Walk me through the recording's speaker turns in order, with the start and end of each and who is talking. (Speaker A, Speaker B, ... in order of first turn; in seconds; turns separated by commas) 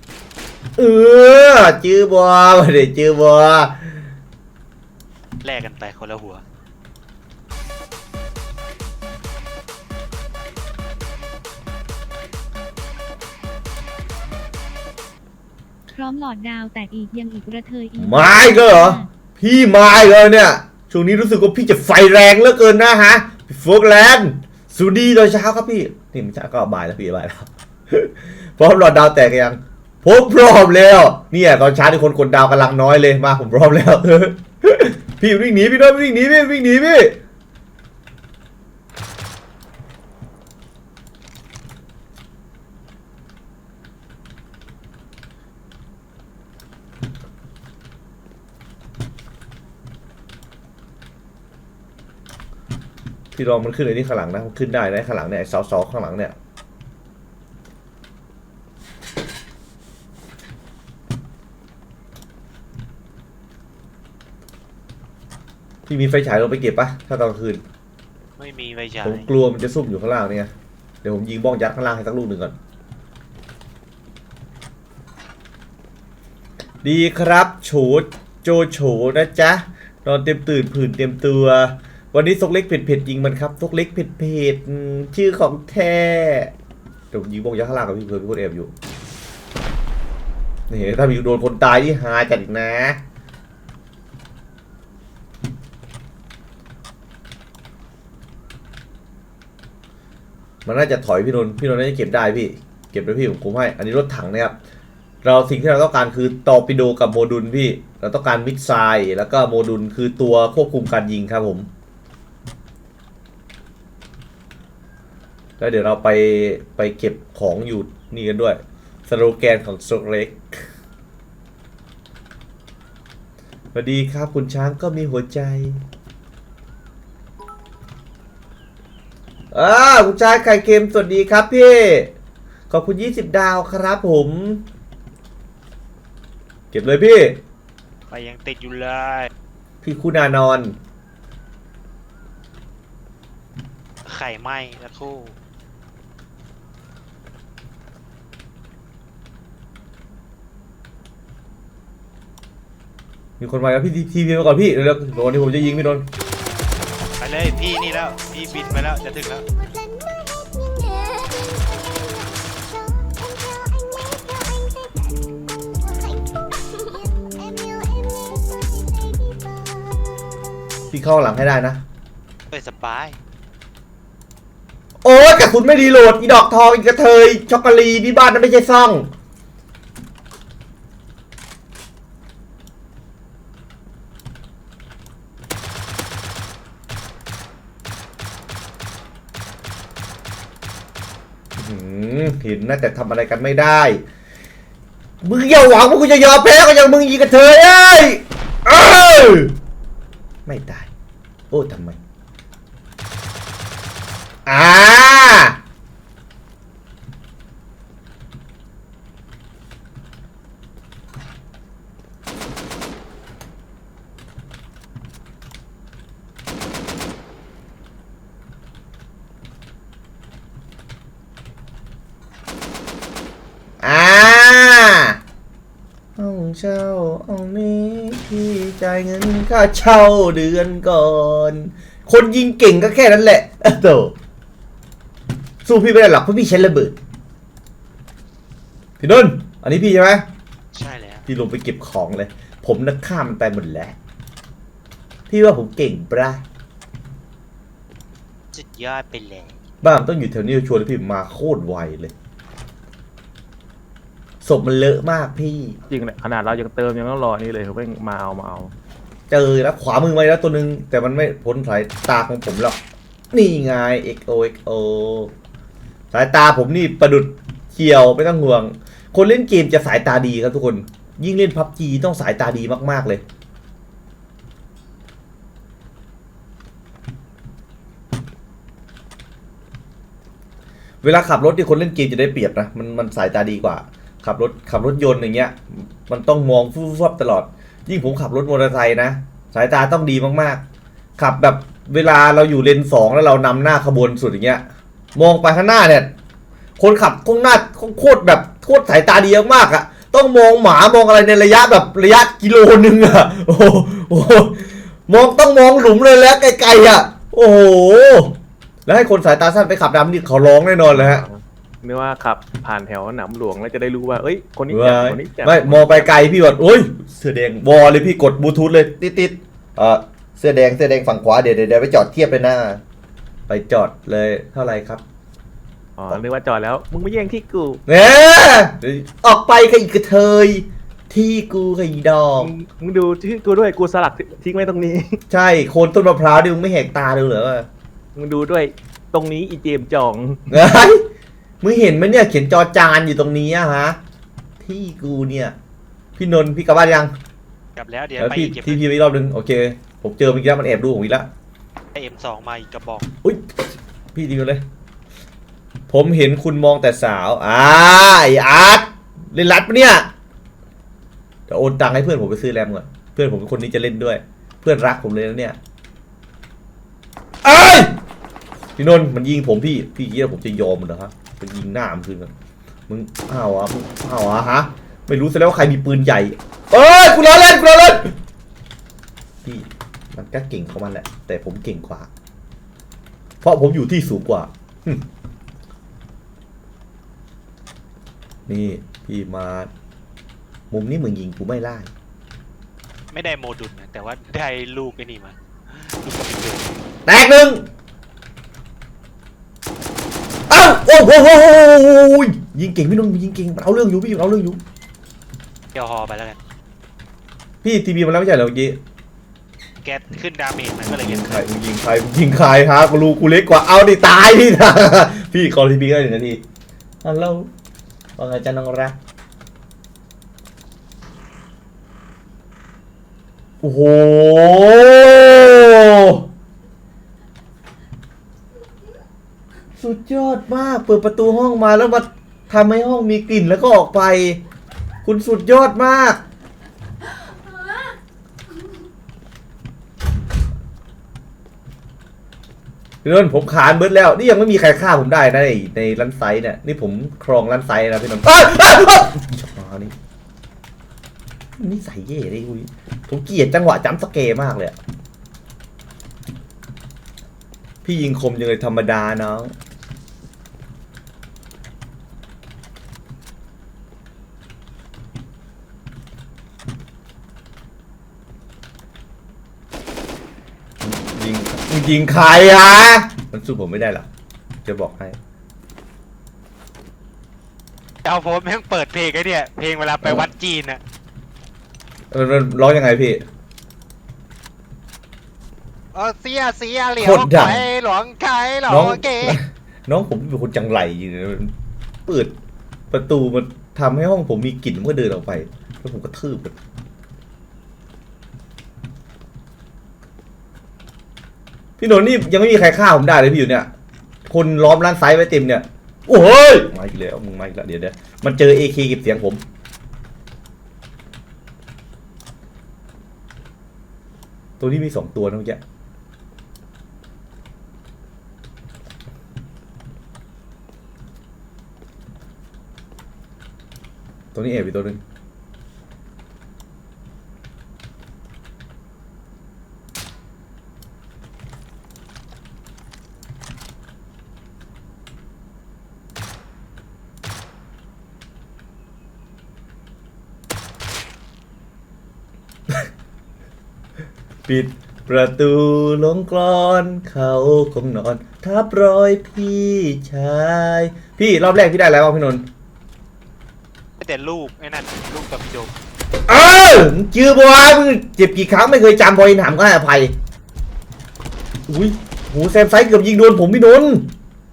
Speaker A: 0.8-4.0, Speaker B: 5.4-6.4, Speaker C: 15.9-19.1, Speaker A: 18.0-37.2, Speaker A: 53.3-56.3, Speaker A: 65.8-67.6, Speaker B: 68.4-69.3, Speaker A: 69.0-70.5, Speaker A: 71.0-72.5, Speaker A: 76.8-86.5, Speaker A: 87.1-88.7, Speaker A: 90.7-93.0, Speaker A: 100.6-104.5, Speaker A: 105.2-111.7, Speaker A: 115.6-120.6, Speaker A: 123.7-125.8, Speaker A: 129.5-132.1, Speaker A: 132.7-134.6, Speaker A: 136.7-137.4, Speaker B: 138.1-139.3, Speaker A: 139.8-140.8, Speaker B: 144.0-145.3, Speaker A: 153.4-156.1, Speaker B: 157.2-159.4, Speaker A: 170.9-171.8, Speaker B: 172.5-173.2, Speaker A: 175.0-179.1, Speaker A: 191.6-194.0, Speaker A: 195.2-199.5, Speaker A: 200.4-200.9, Speaker A: 201.5-202.0, Speaker A: 204.4-205.6, Speaker A: 223.8-225.2, Speaker A: 226.2-234.1, Speaker A: 235.6-236.9, Speaker A: 239.0-240.2, Speaker B: 240.7-241.2, Speaker A: 241.3-243.9, Speaker A: 245.3-246.4, Speaker B: 248.5-249.6, Speaker A: 249.8-252.1, Speaker A: 254.4-255.8, Speaker D: 255.9-258.7, Speaker A: 259.3-262.8, Speaker A: 263.3-265.3, Speaker A: 266.1-273.2, Speaker A: 281.0-290.6, Speaker A: 291.2-294.6, Speaker A: 295.1-296.1, Speaker A: 296.8-311.2, Speaker D: 310.9-316.2, Speaker A: 314.7-322.8, Speaker A: 323.5-325.0, Speaker D: 326.0-327.8, Speaker A: 327.9-332.5, Speaker D: 332.4-335.2, Speaker A: 335.3-337.7, Speaker D: 338.1-340.6, Speaker A: 340.5-341.0, Speaker A: 341.6-344.0, Speaker A: 344.6-345.6, Speaker A: 346.1-347.1, Speaker B: 347.8-348.8, Speaker A: 348.2-351.3, Speaker B: 351.9-353.1, Speaker A: 353.2-353.6, Speaker A: 354.1-354.6, Speaker A: 355.9-360.1, Speaker A: 361.5-365.6, Speaker A: 367.4-367.9, Speaker A: 368.8-372.3, Speaker A: 372.9-378.1, Speaker A: 379.4-382.1, Speaker A: 383.4-385.0, Speaker A: 388.5-389.7, Speaker A: 390.7-391.9, Speaker B: 393.1-396.7, Speaker A: 397.1-397.6, Speaker A: 400.5-404.6, Speaker B: 405.7-406.4, Speaker A: 407.6-408.8, Speaker B: 409.8-411.4, Speaker A: 410.8-416.4, Speaker A: 417.0-417.5, Speaker A: 418.2-418.9, Speaker A: 423.6-426.2, Speaker A: 429.8-434.4, Speaker A: 435.0-436.2, Speaker A: 443.0-449.9, Speaker A: 451.6-454.8, Speaker A: 457.8-459.5, Speaker A: 470.8-474.1, Speaker A: 474.6-475.2, Speaker B: 478.0-480.8, Speaker A: 480.0-480.3, Speaker A: 482.1-483.2, Speaker B: 485.9-489.4, Speaker A: 487.0-487.7, Speaker A: 488.7-491.5, Speaker A: 492.1-492.3, Speaker A: 492.9-496.5, Speaker A: 501.8-503.7, Speaker A: 504.3-509.4, Speaker A: 514.6-515.6, Speaker A: 524.3-525.0, Speaker A: 544.5-552.4, Speaker B: 554.0-555.7, Speaker A: 556.3-560.1, Speaker A: 561.7-564.1